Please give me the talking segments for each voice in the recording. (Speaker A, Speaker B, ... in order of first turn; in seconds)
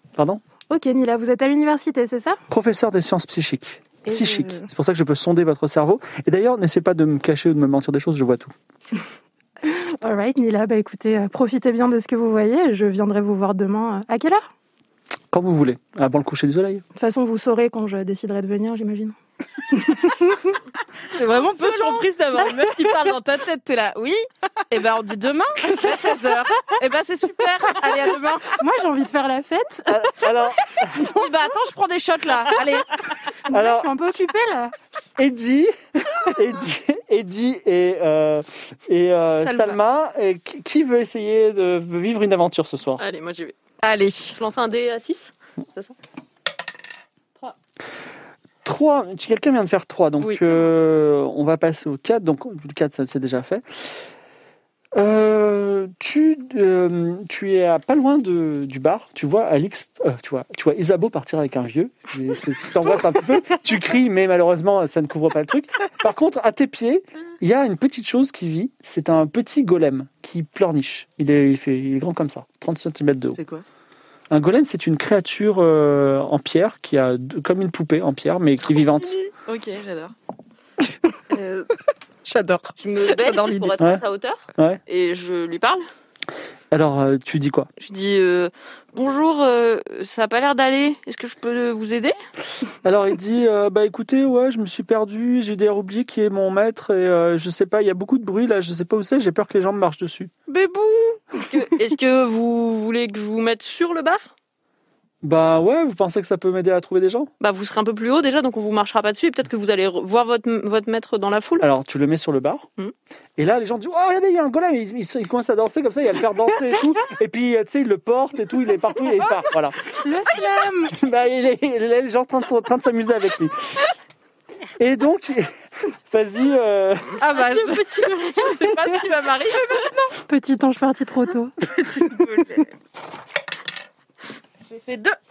Speaker A: 0.7-2.4, 4.1-4.7, 9.6-14.4, 16.9-19.1, 19.7-20.6, 28.6-30.0, 33.5-34.7, 120.0-120.9, 127.6-128.8, 130.2-131.5
Speaker B: 2.5-8.5, 15.3-16.8, 29.9-31.1, 33.5-33.9, 35.2-43.0, 48.6-53.9, 54.9-73.4, 74.3-79.2, 86.7-87.7, 92.8-100.3, 105.2-107.3, 111.6-112.7, 113.4-119.8, 120.8-123.5, 124.8-125.5, 126.1-127.2
Speaker C: 21.1-28.5, 31.1-32.9, 39.4-39.8, 43.8-44.4, 82.2-83.7, 100.5-101.2, 127.2-130.1, 134.7-135.2
Speaker D: 43.0-43.5, 44.3-45.9, 81.3-81.7, 82.8-85.8, 87.8-92.2, 101.5-104.3, 107.4-111.7
Speaker E: 73.3-73.6, 78.7-80.1, 132.0-132.6